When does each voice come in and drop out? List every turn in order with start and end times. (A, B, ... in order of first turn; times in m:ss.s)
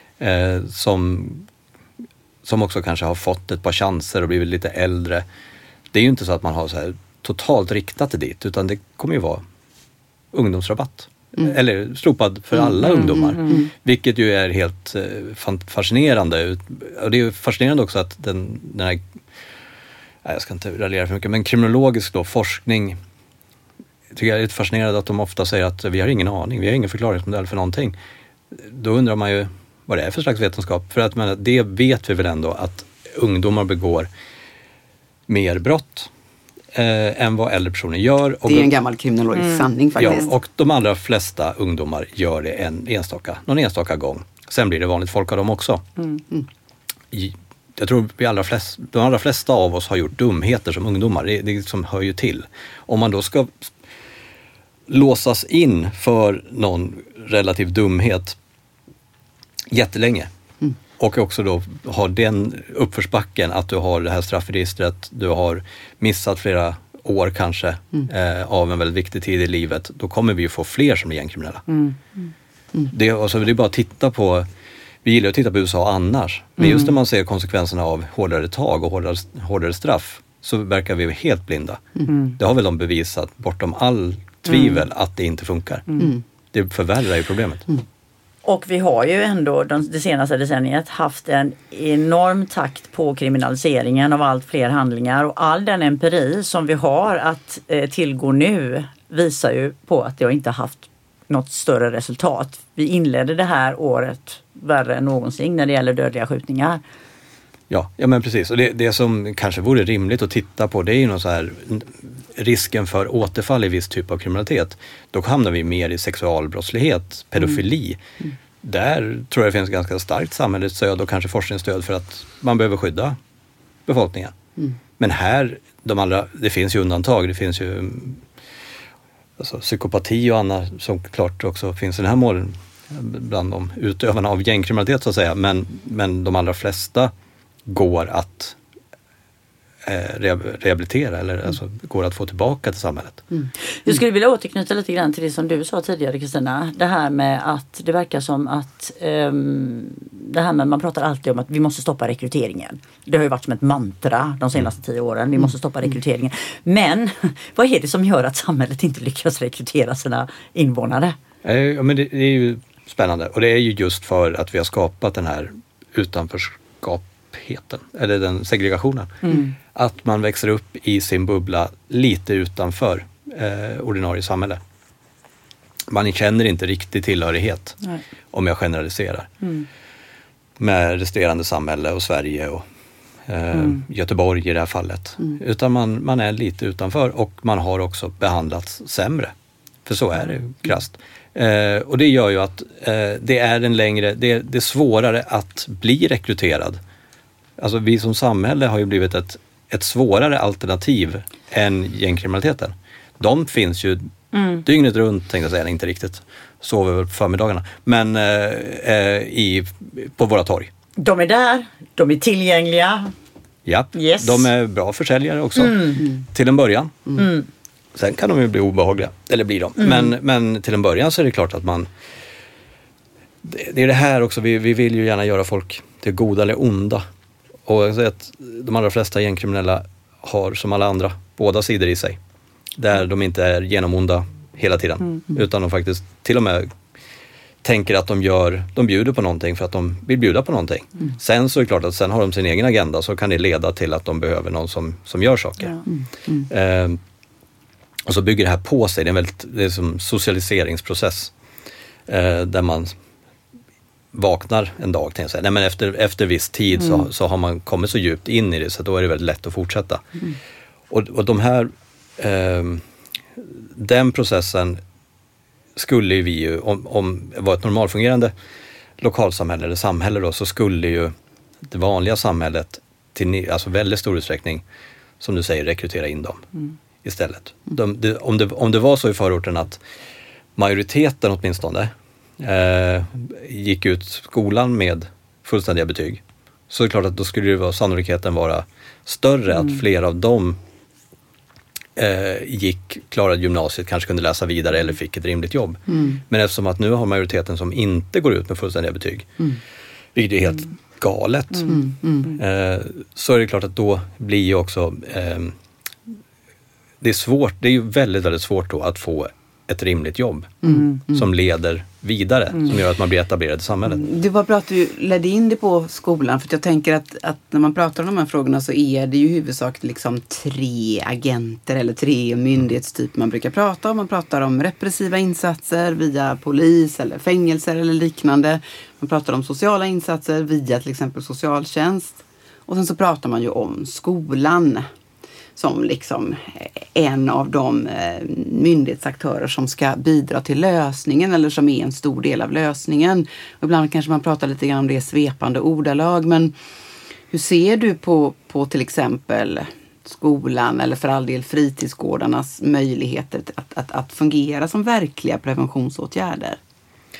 0:00.2-0:01.5 A
0:02.4-0:05.3 A
0:05.9-0:09.4 A
0:10.3-0:19.0 A
0:13.0-0:13.7 B
0:20.2-0:23.0 A
0:24.1-0:28.0 A
0:28.5-0:34.1 A
0:35.3-0:36.1 A
0:36.7-0:38.7 A
0:38.4-0:40.3 B
0:39.4-0:39.6 C
0:40.0-0:45.8 A
0:47.1-0:53.7 A
0:54.9-0:58.4 A
0:59.7-1:00.3 A
1:01.0-1:11.6 A
1:11.7-1:12.0 C
1:12.9-1:14.5 A
1:15.0-1:21.8 A
1:16.6-1:16.9 C
1:22.1-1:22.4 C
1:22.4-1:25.8 A
1:24.5-1:24.8 C
1:26.5-1:27.6 A
1:28.4-1:46.8 C
1:47.7-1:58.0 A
1:58.6-2:03.2 A
2:03.9-2:04.4 A
2:05.0-2:08.2 A
2:09.4-2:17.1 A
2:17.7-2:18.6 A
2:19.8-2:23.2 A
2:23.8-2:41.2 C
2:41.4-2:54.6 A
2:55.9-2:57.8 A
2:58.3-2:59.3 A
3:00.6-3:02.6 A
3:03.3-3:09.3 A
3:03.5-3:03.8 C
3:09.9-3:16.8 A
3:17.6-3:24.1 A
3:24.3-3:24.6 C
3:24.6-3:30.7 A
3:31.0-3:33.1 C
3:33.7-3:37.0 A
3:33.9-3:34.5 C
3:35.6-3:36.0 C
3:37.2-3:37.5 C
3:38.0-3:41.9 A
3:39.8-3:40.1 C
3:43.4-3:47.1 A
3:47.7-3:52.2 A
3:52.8-3:56.7 A
3:57.6-4:05.8 A
4:06.5-4:07.0 A
4:08.1-4:11.3 A
4:12.1-4:13.0 A
4:14.1-4:20.0 A
4:20.9-4:22.8 A
4:23.4-4:24.8 A
4:25.8-4:28.3 A
4:29.0-4:31.1 A
4:31.6-4:34.6 A
4:35.2-4:36.5 A
4:37.0-4:39.8 A
4:40.6-4:50.6 A
4:52.0-4:59.3 A
4:55.9-4:56.2 B
5:00.2-5:01.8 A
5:01.7-5:02.4 B
5:02.3-5:05.6 A
5:07.0-5:14.1 A
5:10.6-5:11.2 B
5:14.0-5:34.9 B
5:35.6-5:46.5 B
5:47.3-5:56.6 B